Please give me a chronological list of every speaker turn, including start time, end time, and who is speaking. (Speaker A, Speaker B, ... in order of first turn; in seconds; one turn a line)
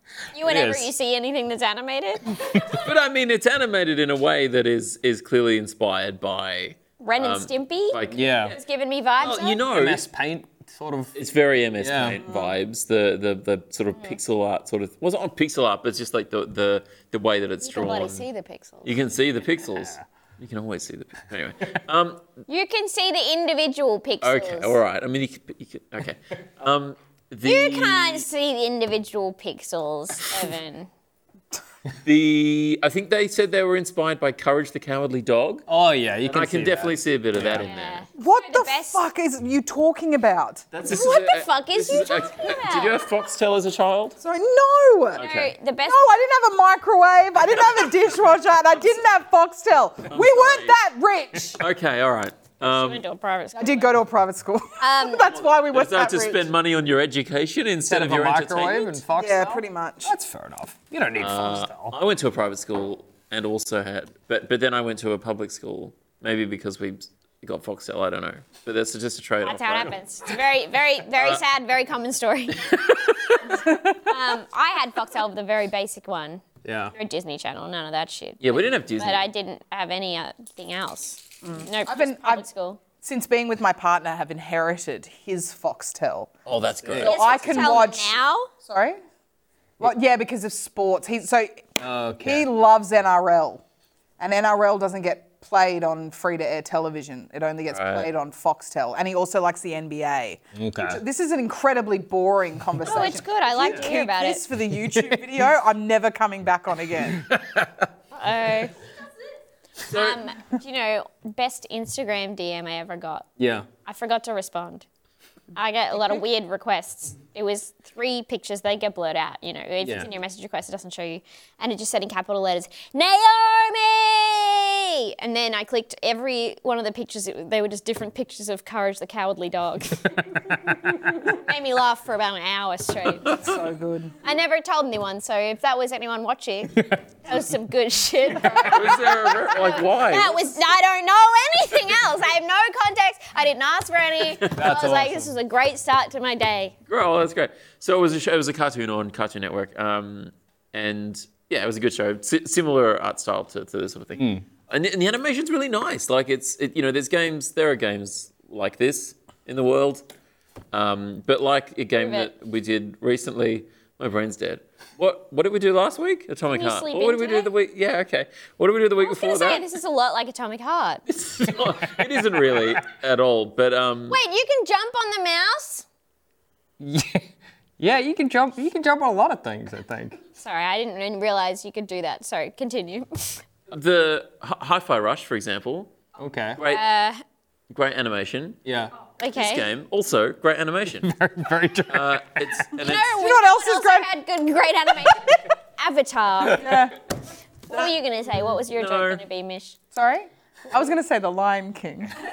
Speaker A: 0.3-2.6
Speaker B: 0.4-0.9
Speaker C: 2.6-8.6
Speaker A: 7.0-9.6
Speaker B: 8.1-8.6
Speaker C: 9.2-10.0
Speaker B: 9.7-11.1
Speaker C: 11.1-18.2
Speaker B: 11.8-12.2
Speaker A: 17.6-18.9
Speaker C: 18.8-22.3
Speaker A: 22.5-24.8
Speaker C: 24.2-28.2
Speaker A: 27.4-30.9
Speaker C: 32.0-35.6
Speaker B: 35.7-37.7
Speaker C: 36.2-38.0
Speaker A: 37.6-39.0
Speaker D: 38.2-40.6
Speaker C: 40.7-44.2
Speaker A: 40.9-43.0
Speaker D: 44.2-45.2
Speaker C: 45.1-45.5
Speaker A: 45.2-46.1
Speaker D: 45.9-51.6
Speaker C: 50.1-50.7
Speaker C: 51.6-53.0
Speaker A: 52.6-53.9
Speaker D: 53.5-56.5
Speaker A: 54.8-55.3
Speaker C: 55.3-59.0
Speaker B: 57.8-61.9
Speaker D: 59.1-60.1
Speaker C: 61.2-69.9
Speaker A: 69.4-72.8
Speaker A: 73.4-76.4
Speaker D: 73.6-74.0
Speaker B: 76.6-76.9
Speaker A: 76.9-82.8
Speaker C: 78.4-79.2
Speaker D: 81.4-82.4
Speaker D: 83.0-86.3
Speaker C: 86.5-87.8
Speaker D: 86.9-89.0
Speaker A: 87.0-88.5
Speaker D: 89.8-91.7
Speaker B: 91.8-92.5
Speaker D: 92.2-93.6
Speaker D: 94.2-107.3
Speaker C: 97.7-98.1
Speaker B: 100.5-101.0
Speaker A: 102.8-104.4
Speaker B: 104.9-105.2
Speaker B: 107.3-107.7
Speaker A: 108.1-108.7
Speaker A: 109.8-113.2
Speaker C: 109.9-110.2
Speaker B: 113.4-113.7
Speaker A: 113.8-114.8
Speaker A: 115.5-130.3
Speaker B: 119.8-120.1
Speaker A: 131.2-133.4
Speaker D: 133.4-134.1
Speaker A: 134.2-146.7
Speaker C: 138.6-140.5
Speaker B: 144.5-145.3
Speaker C: 146.9-160.0
Speaker B: 154.2-154.4
Speaker C: 160.7-169.6
Speaker A: 161.9-162.3
Speaker A: 166.5-167.5
Speaker A: 169.0-171.0
Speaker C: 171.1-174.2
Speaker A: 174.1-175.8
Speaker B: 176.8-177.2
Speaker B: 177.8-180.2
Speaker A: 180.4-183.4
Speaker C: 183.7-185.9
Speaker B: 186.2-186.6
Speaker C: 186.6-186.8
Speaker A: 186.7-187.2
Speaker C: 187.7-188.6
Speaker B: 188.6-188.9
Speaker A: 189.2-189.7
Speaker C: 189.3-191.1
Speaker B: 191.0-192.6
Speaker C: 191.9-193.2
Speaker A: 192.8-196.8
Speaker D: 193.1-194.1
Speaker D: 196.5-197.0
Speaker A: 197.7-199.8
Speaker C: 198.6-199.2
Speaker D: 199.9-202.1